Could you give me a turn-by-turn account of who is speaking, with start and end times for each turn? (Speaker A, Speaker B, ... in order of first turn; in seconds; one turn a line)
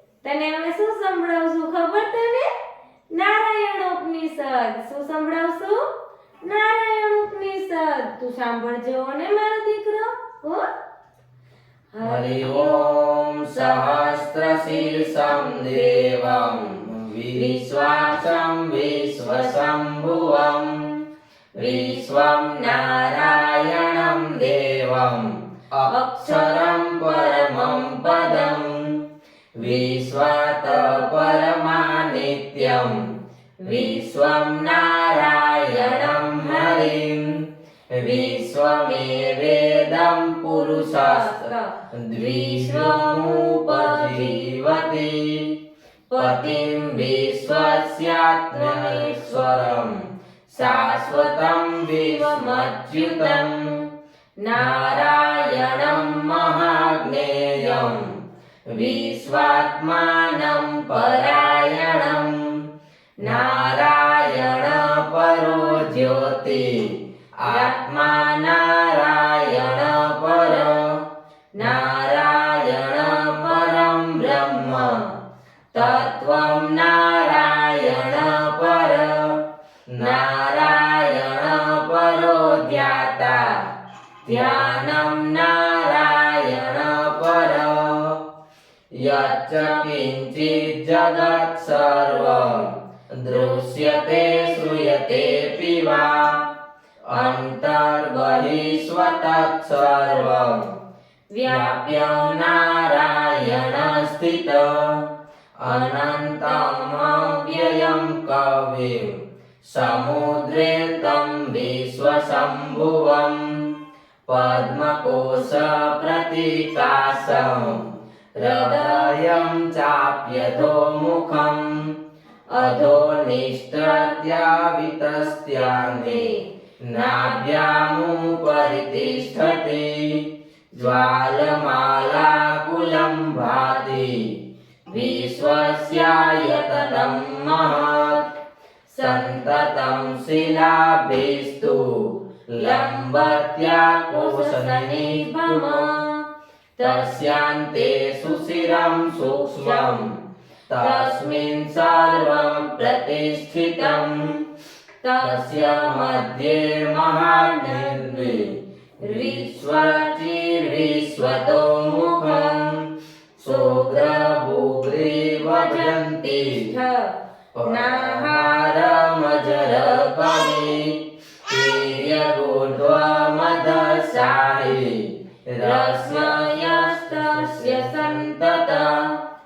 Speaker A: 0.2-2.5
Speaker A: 3.1-5.8
Speaker A: 6.4-10.7
Speaker A: 11.9-13.0
Speaker B: 12.0-20.9
Speaker A: 13.5-16.8
Speaker A: 17.3-20.9
Speaker A: 21.6-25.2
Speaker B: 21.6-29.0
Speaker A: 25.9-28.7
Speaker B: 29.6-33.1
Speaker A: 30.6-31.9
Speaker A: 32.5-33.0
Speaker A: 33.6-37.1
Speaker B: 33.7-37.4
Speaker B: 37.9-45.5
Speaker A: 38.0-44.8
Speaker A: 46.1-48.0
Speaker B: 46.2-53.6
Speaker A: 48.5-50.0
Speaker A: 50.5-53.6
Speaker A: 54.4-58.0
Speaker B: 54.5-58.1
Speaker B: 58.7-62.5
Speaker A: 58.8-59.8
Speaker A: 60.6-62.2
Speaker A: 63.2-66.6
Speaker B: 63.2-71.0
Speaker A: 67.5-68.3
Speaker A: 70.1-70.8
Speaker A: 71.6-75.1
Speaker B: 71.6-75.1
Speaker A: 75.7-76.6
Speaker B: 75.8-79.4
Speaker A: 77.2-78.3
Speaker B: 79.9-83.5
Speaker A: 80.0-81.2
Speaker A: 82.2-83.4
Speaker B: 84.2-88.2
Speaker A: 84.3-85.0
Speaker A: 89.0-92.7
Speaker B: 89.0-96.4
Speaker A: 93.3-96.5
Speaker B: 97.1-100.7
Speaker A: 97.1-100.8
Speaker A: 101.3-104.0
Speaker B: 101.5-105.0
Speaker B: 105.6-113.7
Speaker A: 105.6-108.2
Speaker A: 109.8-112.8
Speaker B: 114.3-121.9
Speaker A: 115.1-116.1
Speaker A: 118.4-119.7
Speaker A: 122.5-124.6
Speaker B: 122.6-126.3
Speaker A: 125.2-129.7
Speaker B: 126.8-134.3
Speaker A: 130.8-132.0
Speaker A: 133.1-134.1
Speaker B: 134.9-138.2
Speaker A: 134.9-138.2
Speaker A: 138.9-140.2
Speaker B: 139.0-145.9
Speaker A: 142.6-146.3
Speaker A: 146.8-150.2
Speaker B: 146.8-150.1
Speaker B: 150.7-154.4
Speaker A: 150.8-154.4
Speaker A: 155.0-162.8
Speaker B: 155.2-166.8
Speaker A: 163.4-167.1
Speaker B: 167.6-179.1
Speaker A: 167.6-170.9
Speaker A: 171.5-175.0
Speaker A: 175.6-179.0